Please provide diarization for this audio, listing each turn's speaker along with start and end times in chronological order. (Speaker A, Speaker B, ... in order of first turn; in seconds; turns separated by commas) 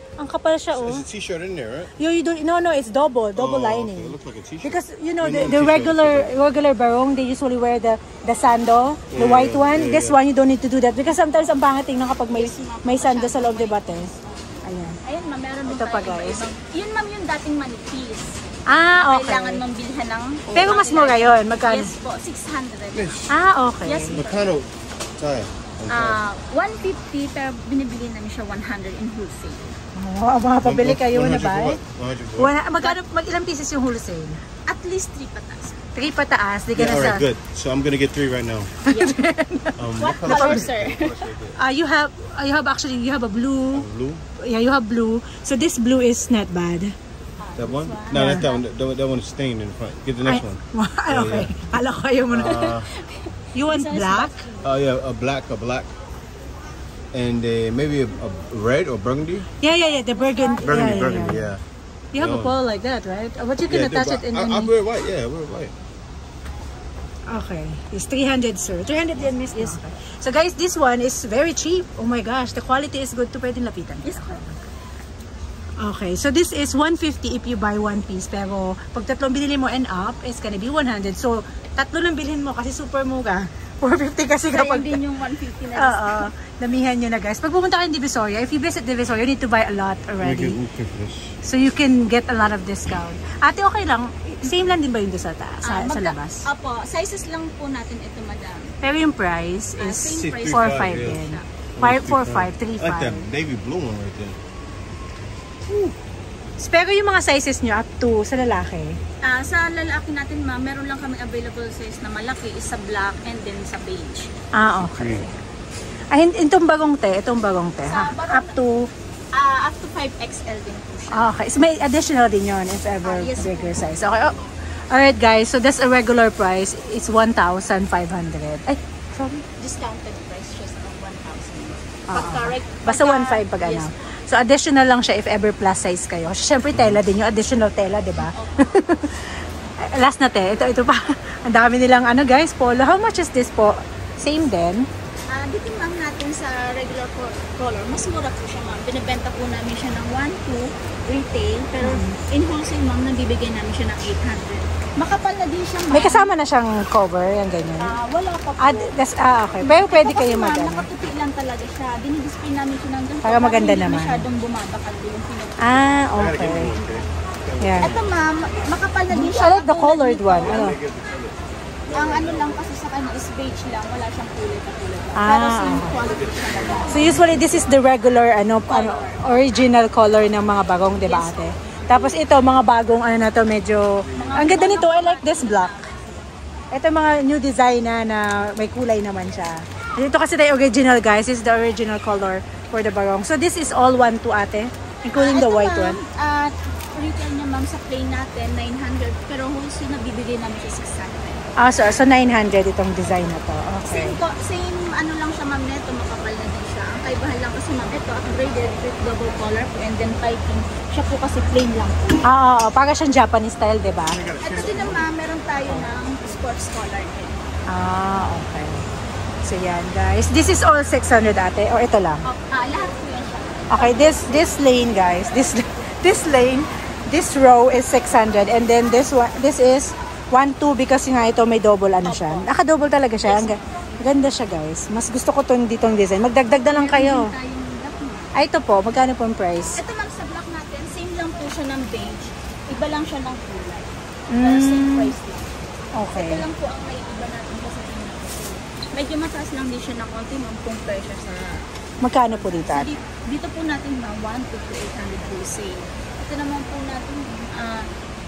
Speaker A: 0.2-1.1, Speaker B: 0.7-1.9, Speaker A: 2.0-14.1, Speaker B: 3.4-6.3, Speaker B: 9.1-10.2, Speaker C: 12.3-14.5, Speaker A: 14.6-15.0, Speaker C: 15.0-18.4, Speaker A: 15.7-16.5, Speaker A: 18.7-19.6, Speaker C: 19.0-23.3, Speaker A: 20.5-21.9, Speaker B: 22.9-23.3, Speaker A: 23.3-24.2, Speaker C: 23.8-24.4, Speaker B: 24.1-26.2, Speaker C: 25.9-29.8, Speaker A: 29.9-31.8, Speaker B: 30.6-32.5, Speaker A: 32.4-34.4, Speaker C: 34.7-35.8, Speaker A: 35.9-37.2, Speaker B: 36.7-38.7, Speaker C: 38.9-39.2, Speaker A: 38.9-40.7, Speaker B: 39.8-41.6, Speaker C: 40.0-41.3, Speaker A: 41.6-43.9, Speaker B: 43.7-44.2, Speaker A: 44.4-46.9, Speaker C: 47.4-48.5, Speaker B: 47.6-51.7, Speaker A: 48.1-48.5, Speaker A: 50.2-52.6, Speaker B: 52.3-52.9, Speaker C: 52.5-54.7, Speaker A: 53.5-54.4, Speaker B: 54.6-55.9, Speaker B: 57.1-59.5, Speaker A: 59.6-61.5, Speaker C: 59.8-61.3, Speaker B: 60.6-61.6, Speaker A: 62.1-64.7, Speaker B: 62.2-62.6, Speaker B: 63.7-65.7, Speaker A: 67.3-74.6, Speaker C: 74.0-74.4, Speaker A: 75.8-85.0, Speaker C: 84.5-86.3, Speaker A: 85.8-90.6, Speaker B: 90.2-91.4, Speaker A: 91.4-96.5, Speaker C: 94.3-94.7, Speaker C: 95.6-98.7, Speaker A: 98.8-103.2, Speaker C: 99.8-101.4, Speaker B: 100.0-101.2, Speaker B: 101.8-104.4, Speaker A: 106.6-109.0, Speaker C: 109.2-114.3, Speaker A: 114.5-115.3, Speaker B: 114.8-115.3, Speaker A: 116.1-118.9, Speaker C: 117.8-118.5, Speaker C: 119.3-121.5, Speaker A: 121.1-124.3, Speaker C: 123.0-124.5, Speaker A: 124.9-129.4, Speaker C: 129.6-133.9, Speaker A: 132.1-144.9, Speaker B: 136.7-137.0, Speaker C: 138.2-138.6, Speaker C: 145.3-156.3, Speaker A: 151.8-152.2, Speaker A: 155.9-157.9, Speaker C: 157.8-158.9, Speaker A: 158.6-160.9, Speaker C: 159.6-165.6, Speaker A: 163.2-164.2, Speaker A: 165.6-166.7, Speaker B: 166.2-168.1, Speaker A: 167.6-168.0, Speaker C: 167.8-170.7, Speaker A: 169.1-170.8, Speaker B: 170.4-171.4, Speaker B: 171.9-172.6, Speaker C: 171.9-177.3, Speaker A: 175.2-176.0, Speaker B: 176.4-176.8, Speaker A: 176.9-185.8, Speaker C: 178.7-179.2, Speaker C: 180.9-182.3, Speaker C: 184.1-186.2, Speaker A: 186.7-196.0, Speaker C: 195.2-201.4, Speaker A: 201.6-204.2, Speaker C: 203.9-212.2, Speaker A: 212.2-214.4, Speaker B: 214.1-215.0, Speaker C: 214.4-217.4, Speaker A: 217.7-218.8, Speaker A: 219.4-222.2, Speaker C: 222.2-224.4, Speaker A: 223.7-237.3, Speaker C: 232.0-232.5, Speaker C: 233.2-233.9, Speaker C: 236.5-238.3, Speaker A: 238.3-239.8, Speaker C: 239.8-245.5, Speaker A: 244.3-245.1, Speaker A: 245.9-246.4, Speaker C: 246.2-251.6, Speaker A: 252.0-252.9, Speaker C: 252.3-257.9